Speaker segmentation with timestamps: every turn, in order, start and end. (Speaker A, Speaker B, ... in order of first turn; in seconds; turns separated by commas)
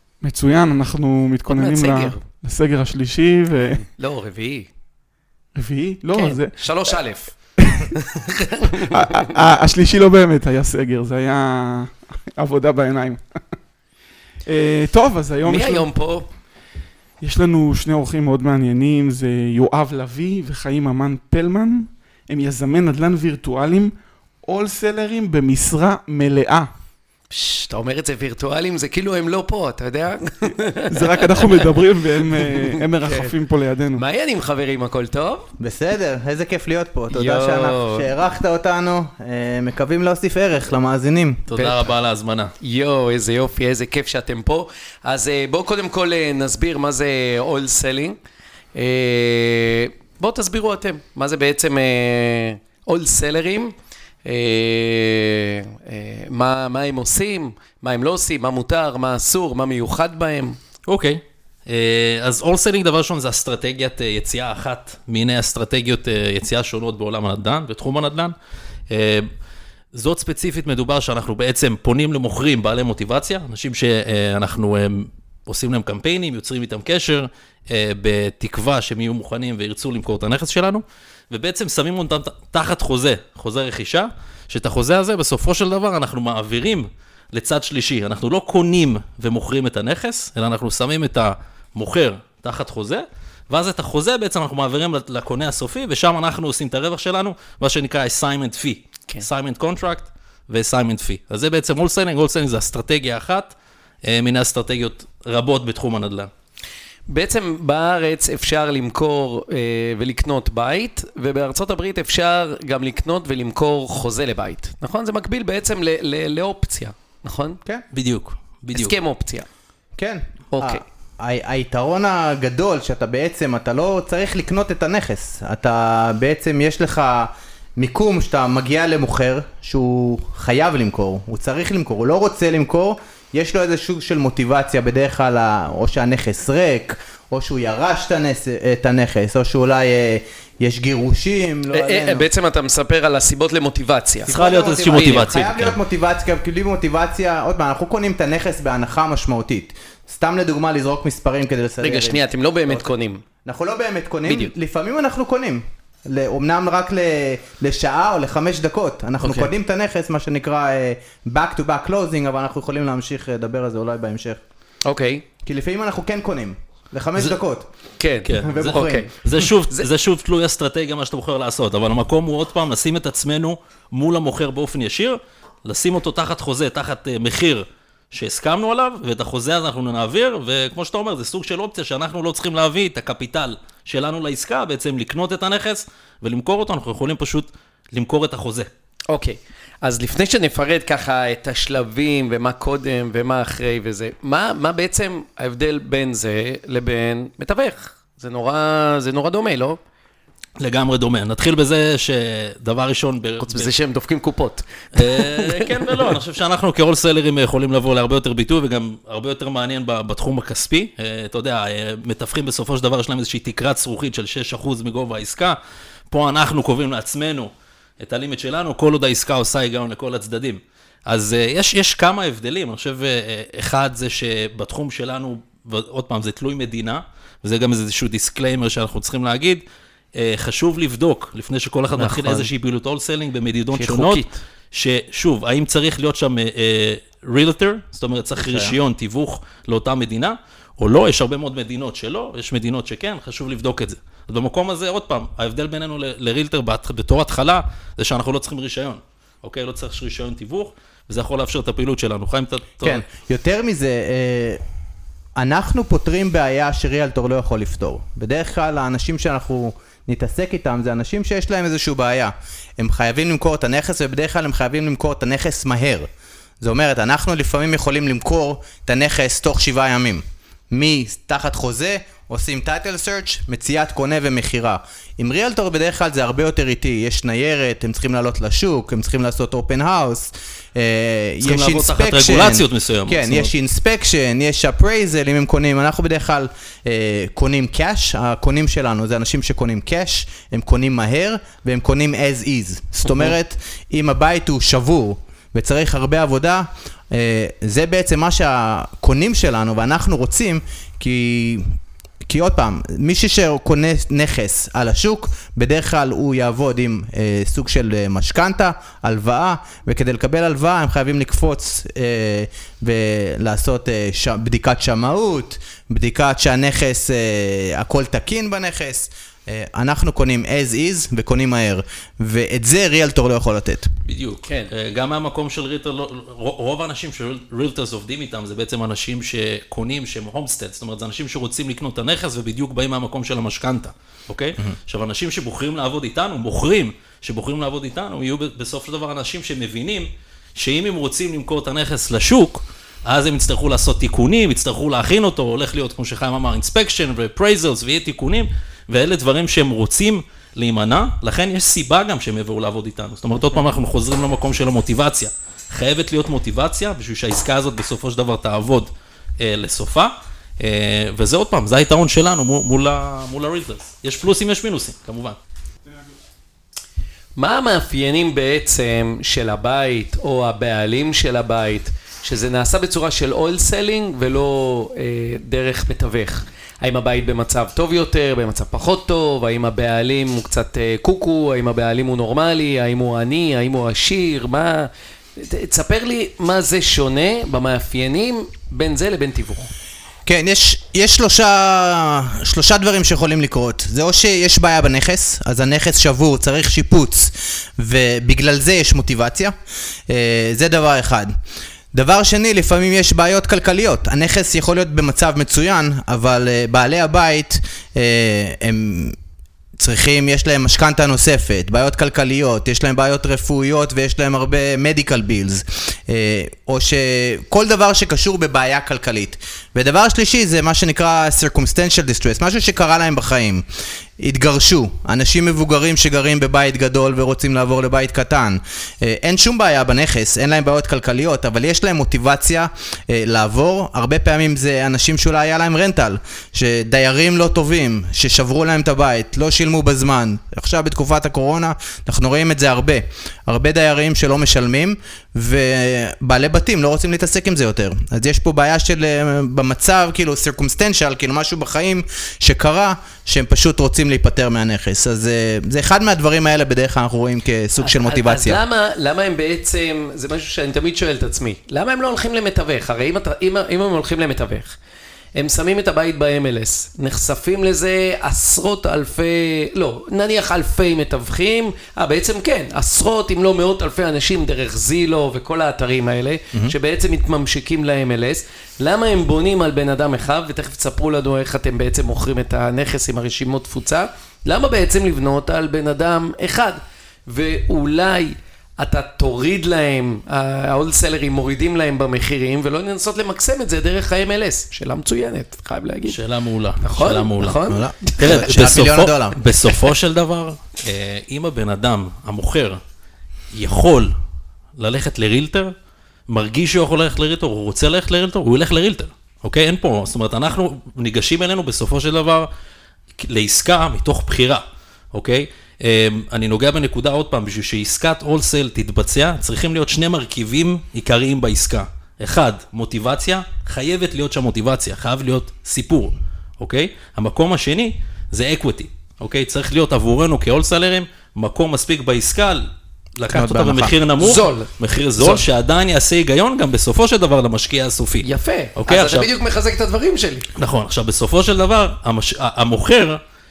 Speaker A: 0.2-3.8, Speaker B: 1.5-2.2, Speaker B: 3.8-4.7, Speaker A: 5.5-6.6, Speaker B: 6.1-7.3, Speaker B: 7.9-9.3, Speaker A: 8.8-13.2, Speaker A: 14.5-15.9, Speaker B: 15.4-16.2, Speaker A: 17.2-26.7, Speaker B: 27.3-31.6, Speaker A: 30.9-34.0, Speaker B: 32.4-33.3, Speaker B: 33.9-35.5, Speaker C: 35.6-41.4, Speaker B: 37.1-38.1, Speaker D: 41.5-42.5, Speaker B: 41.5-41.9, Speaker B: 42.6-48.1, Speaker B: 48.7-60.6, Speaker D: 60.9-68.3, Speaker D: 68.9-69.3, Speaker D: 69.9-106.3, Speaker B: 107.1-117.6, Speaker D: 117.9-119.0, Speaker B: 118.7-119.5, Speaker C: 120.0-142.2, Speaker B: 120.5-120.8, Speaker B: 141.7-144.3, Speaker C: 144.2-152.8, Speaker D: 144.3-145.8, Speaker B: 144.9-145.3, Speaker B: 151.8-153.2, Speaker C: 153.4-164.4, Speaker B: 154.3-154.5, Speaker B: 159.2-159.5, Speaker B: 164.8-165.2, Speaker C: 165.4-167.7, Speaker B: 168.0-169.1, Speaker D: 168.2-188.7, Speaker C: 168.4-169.1, Speaker B: 189.1-199.8, Speaker D: 200.6-203.7, Speaker B: 203.4-206.1, Speaker D: 204.9-215.6, Speaker D: 216.1-229.6, Speaker D: 230.1-253.0, Speaker C: 232.0-232.4, Speaker B: 233.7-234.3, Speaker C: 238.4-238.8, Speaker C: 252.8-254.6, Speaker C: 255.4-266.1, Speaker C: 266.6-323.9, Speaker D: 281.4-283.5, Speaker D: 324.1-365.4, Speaker B: 324.4-324.7, Speaker B: 367.4-389.7, Speaker C: 390.2-399.5, Speaker C: 400.1-401.3, Speaker C: 401.9-409.1, Speaker C: 409.8-423.6, Speaker C: 424.2-458.6, Speaker B: 457.8-464.8, Speaker B: 465.4-496.2, Speaker D: 496.1-497.6, Speaker B: 496.8-498.5, Speaker C: 497.7-499.4, Speaker D: 498.2-502.8, Speaker D: 503.5-504.1, Speaker D: 504.8-505.7, Speaker D: 506.3-512.5, Speaker D: 513.2-532.6, Speaker D: 533.2-538.2, Speaker C: 533.3-533.9, Speaker B: 534.2-535.4, Speaker B: 538.2-540.5, Speaker D: 538.8-539.3, Speaker D: 540.5-543.2